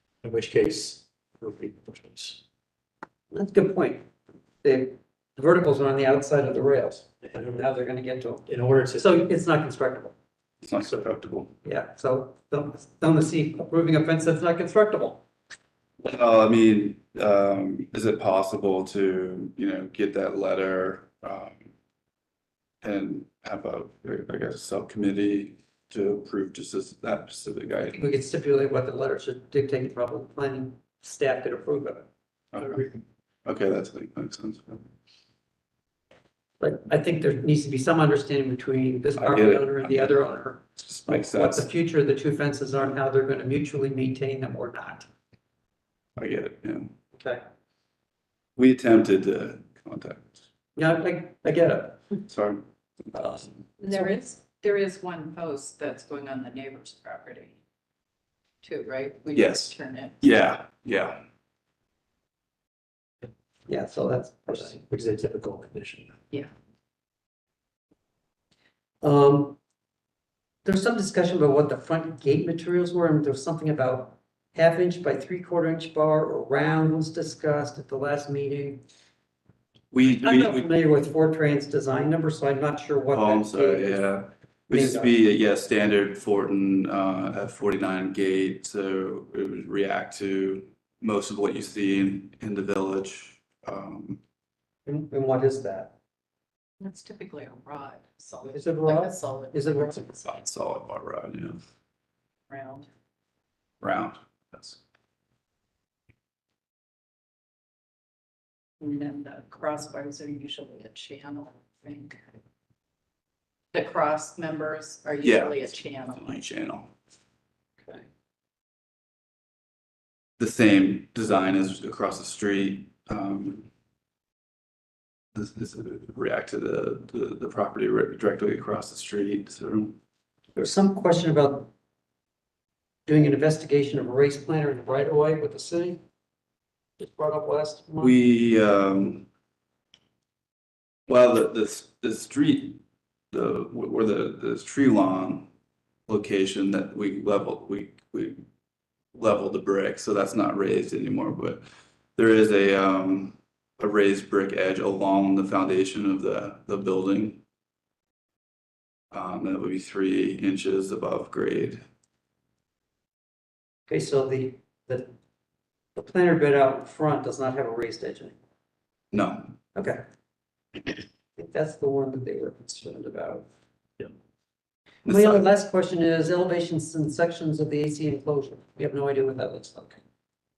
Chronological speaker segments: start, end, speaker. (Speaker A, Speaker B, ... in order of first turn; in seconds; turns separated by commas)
Speaker A: 0.2-2.4, Speaker B: 3.3-4.0, Speaker B: 4.6-8.4, Speaker A: 7.2-7.6, Speaker A: 8.4-9.2, Speaker B: 9.0-10.1, Speaker C: 10.6-11.5, Speaker B: 11.6-15.2, Speaker C: 16.0-21.6, Speaker C: 22.8-28.0, Speaker B: 27.9-32.1, Speaker C: 32.5-32.9, Speaker C: 33.4-34.9, Speaker B: 36.6-45.1, Speaker C: 39.1-40.1, Speaker C: 40.8-41.6, Speaker C: 46.2-46.9, Speaker B: 47.1-47.4, Speaker C: 48.5-50.4, Speaker B: 50.8-52.2, Speaker C: 52.3-53.5, Speaker B: 53.1-54.1, Speaker D: 53.8-57.6, Speaker D: 58.6-60.2, Speaker C: 59.3-61.2, Speaker B: 63.7-64.7, Speaker A: 64.5-66.1, Speaker B: 69.0-69.5, Speaker B: 70.6-78.8, Speaker C: 79.9-80.6, Speaker B: 80.2-84.2, Speaker C: 83.1-94.2, Speaker B: 84.7-85.1, Speaker B: 94.8-95.9, Speaker D: 96.8-100.2, Speaker B: 98.5-100.1, Speaker C: 100.2-101.6, Speaker D: 102.5-102.9, Speaker C: 103.8-104.8, Speaker D: 108.8-112.2, Speaker D: 113.7-116.4, Speaker C: 115.2-116.9, Speaker C: 120.4-123.7, Speaker C: 125.3-129.9, Speaker B: 130.6-131.7, Speaker B: 133.1-136.0, Speaker B: 137.0-138.1, Speaker C: 138.0-139.3, Speaker C: 141.1-142.8, Speaker C: 143.3-145.5, Speaker C: 146.1-148.4, Speaker C: 149.1-151.6, Speaker C: 152.2-157.4, Speaker C: 159.1-161.8, Speaker B: 163.9-165.1, Speaker B: 165.9-168.3, Speaker C: 169.1-169.5, Speaker B: 169.7-170.0, Speaker B: 171.4-173.5, Speaker C: 175.0-175.4, Speaker B: 175.1-180.0